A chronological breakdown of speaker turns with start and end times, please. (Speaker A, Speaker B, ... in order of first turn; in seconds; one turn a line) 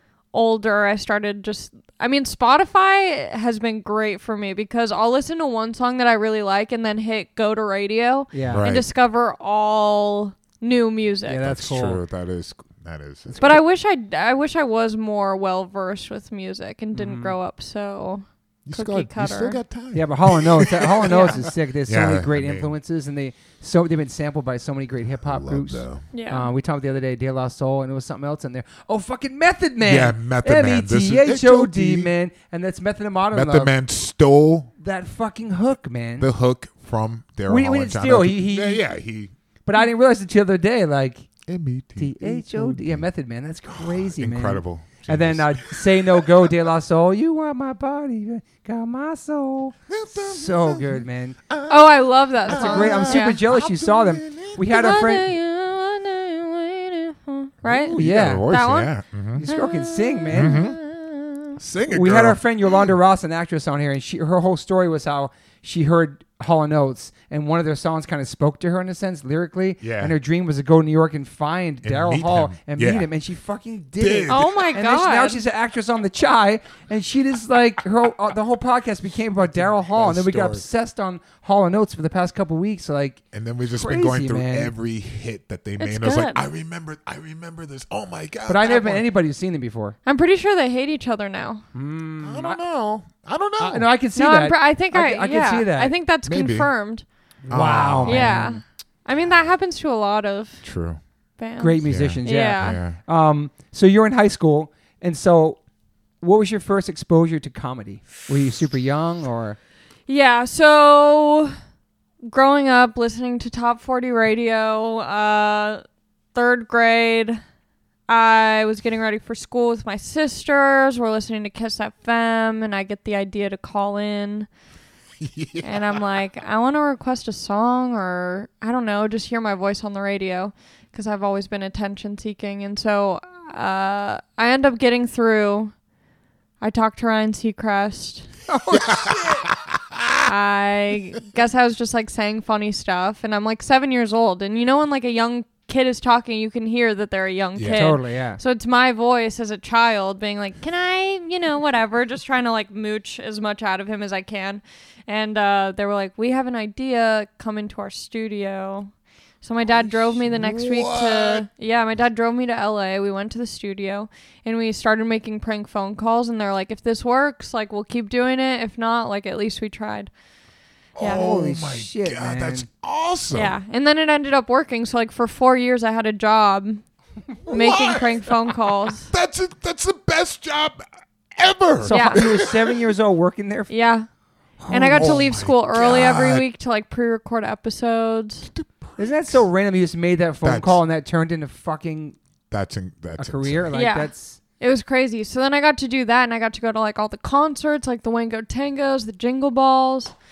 Speaker A: 0.3-11.5
Speaker B: 8.3-8.7
Speaker C: 8.5-8.9
Speaker B: 11.3-12.0
Speaker C: 11.4-13.6
Speaker A: 13.4-19.6
Speaker B: 16.9-17.4
Speaker C: 18.7-22.7
Speaker B: 19.9-33.7
Speaker A: 21.1-21.4
Speaker C: 25.2-26.1
Speaker A: 26.1-26.5
Speaker C: 29.8-32.1
Speaker C: 33.3-34.7
Speaker B: 34.8-36.3
Speaker C: 36.2-39.3
Speaker B: 37.5-38.8
Speaker B: 39.7-41.3
Speaker C: 41.5-43.1
Speaker B: 42.0-51.4
Speaker C: 43.7-46.5
Speaker C: 49.9-54.6
Speaker A: 51.7-53.5
Speaker B: 52.5-55.3
Speaker A: 54.6-58.9
Speaker C: 57.6-59.4
Speaker B: 57.9-58.5
Speaker B: 59.4-60.7
Speaker A: 59.5-61.6
Speaker C: 60.3-60.8
Speaker C: 61.6-62.9
Speaker B: 61.9-83.2
Speaker C: 69.8-70.2
Speaker C: 71.8-73.1
Speaker C: 74.0-74.7
Speaker A: 74.3-75.4
Speaker C: 79.5-80.7
Speaker C: 83.3-89.1
Speaker B: 83.8-84.7
Speaker A: 85.8-86.4
Speaker B: 88.5-90.0
Speaker A: 90.0-91.6
Speaker B: 91.7-92.6
Speaker C: 92.2-93.9
Speaker B: 93.6-95.9
Speaker A: 94.2-97.0
Speaker C: 96.2-96.7
Speaker C: 97.5-98.4
Speaker B: 97.5-98.6
Speaker A: 98.1-100.7
Speaker C: 100.6-101.0
Speaker A: 101.4-102.8
Speaker B: 101.6-105.6
Speaker C: 101.8-103.0
Speaker B: 106.2-109.6
Speaker A: 110.1-111.5
Speaker A: 112.2-115.8
Speaker A: 116.3-117.4
Speaker A: 118.1-124.5
Speaker C: 125.2-126.0
Speaker A: 125.6-135.7
Speaker A: 136.6-138.3
Speaker B: 138.5-139.4
Speaker C: 138.7-140.2
Speaker A: 140.2-170.1
Speaker C: 147.6-147.9
Speaker B: 147.7-148.4
Speaker C: 159.7-161.5
Speaker C: 171.0-173.6
Speaker A: 171.0-171.4
Speaker B: 171.0-172.7
Speaker A: 173.3-176.8
Speaker C: 177.5-178.2
Speaker A: 177.5-179.1
Speaker C: 179.1-180.8
Speaker C: 181.3-182.7
Speaker B: 181.8-183.7
Speaker A: 181.9-182.2
Speaker A: 183.7-184.1
Speaker B: 184.6-185.3
Speaker A: 184.7-188.5
Speaker C: 184.8-186.4
Speaker C: 188.5-189.4
Speaker B: 189.0-192.2
Speaker C: 190.4-190.8
Speaker C: 192.5-193.7
Speaker B: 193.2-194.4
Speaker A: 193.7-200.1